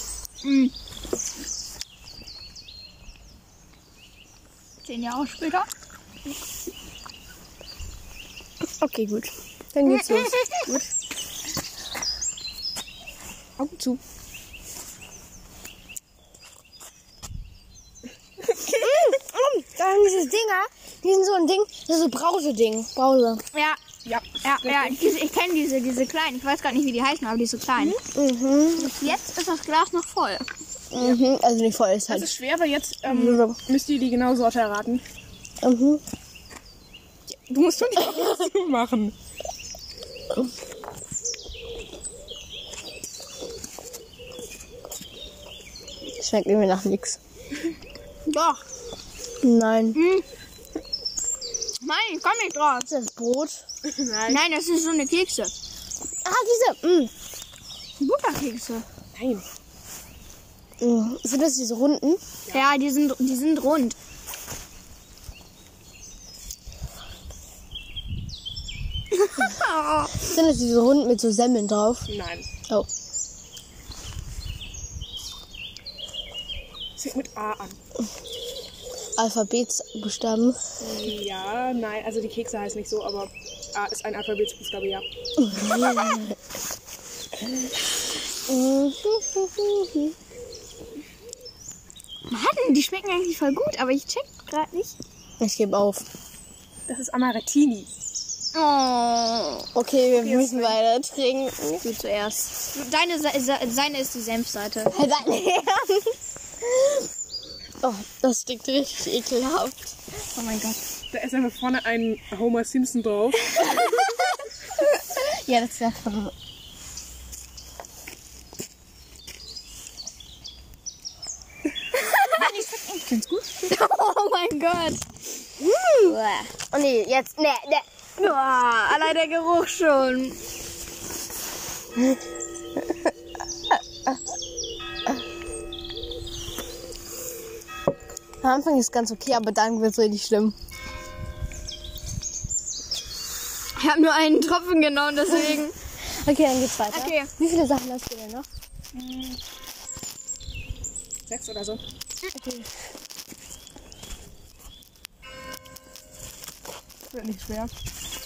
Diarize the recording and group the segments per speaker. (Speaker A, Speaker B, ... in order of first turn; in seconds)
Speaker A: 0.4-0.7, 4.8-5.7, 9.9-10.7, 23.5-23.8, 24.4-28.0, 28.8-30.5, 48.3-48.6, 50.0-50.2, 51.8-52.9, 54.3-55.5, 58.0-58.9, 62.5-64.0, 69.1-70.2, 92.3-95.0, 98.5-99.7, 101.8-105.0, 110.3-110.8, 113.6-114.2, 121.9-122.5, 123.7-125.0, 126.0-126.5, 128.2-130.4, 143.8-145.8, 146.9-147.3
Speaker B: 8.8-10.9, 18.7-23.4, 28.1-29.0, 30.9-32.4, 33.1-33.6, 35.6-36.0, 46.1-47.2, 49.4-50.0, 52.9-53.6, 56.2-57.1, 60.8-62.2, 70.1-72.1, 79.2-80.6, 85.4-86.4, 88.5-90.1, 95.4-96.0, 99.8-101.9, 104.9-106.1, 107.8-110.0, 114.8-116.3, 125.6-126.2, 126.7-127.9, 138.4-140.6, 146.1-148.5, 152.3-152.7
Speaker C: 13.6-14.0, 18.5-18.8, 24.1-25.0, 32.1-35.0, 37.3-39.1, 53.9-54.4, 59.1-59.5, 72.1-72.5, 77.0-77.8, 80.8-85.1, 96.9-97.9, 100.1-100.8, 111.1-113.7, 122.4-123.7, 148.9-149.4, 151.3-151.8, 157.1-157.7